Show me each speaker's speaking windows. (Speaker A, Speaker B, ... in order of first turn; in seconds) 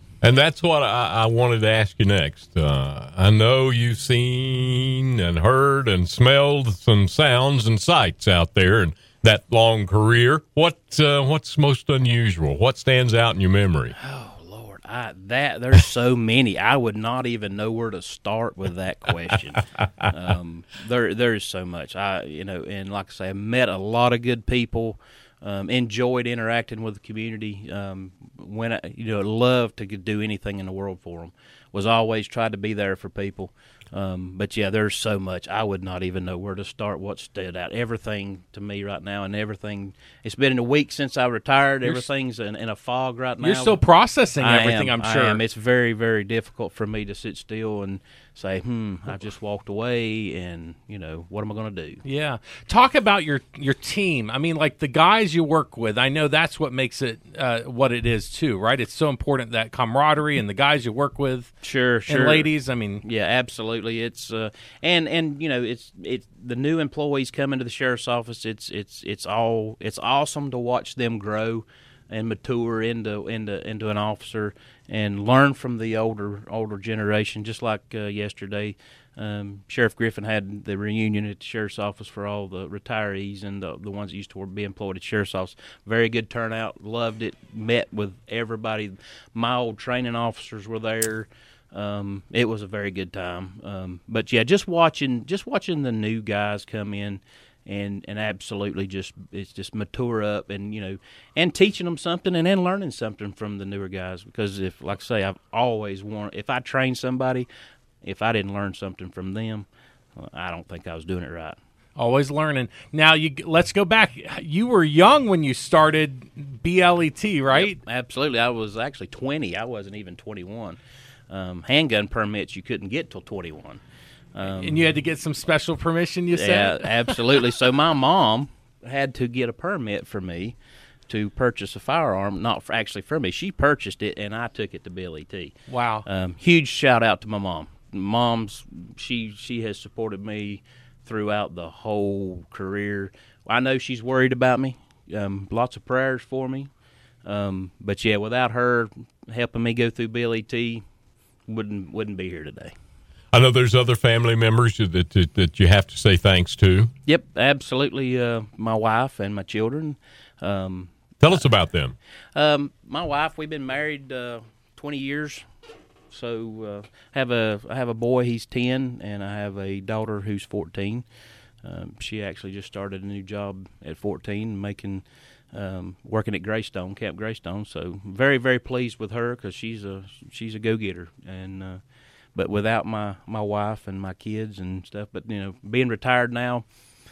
Speaker A: 0.2-13.9, 153.3-156.9, 161.2-161.9
Speaker B: 14.0-43.8, 44.4-52.0, 61.6-62.5, 63.0-107.5, 108.0-111.6, 117.5-120.8, 121.3-123.8, 124.3-124.9, 126.3-130.6, 131.1-135.5, 136.1-146.7, 147.2-150.8, 151.5-152.7, 157.1-161.4, 162.3-165.4, 166.1-171.0, 171.6-181.8, 182.3-186.6
Speaker C: 43.4-45.4, 52.0-61.5, 62.0-63.0, 112.0-117.8, 124.4-127.2, 135.7-136.0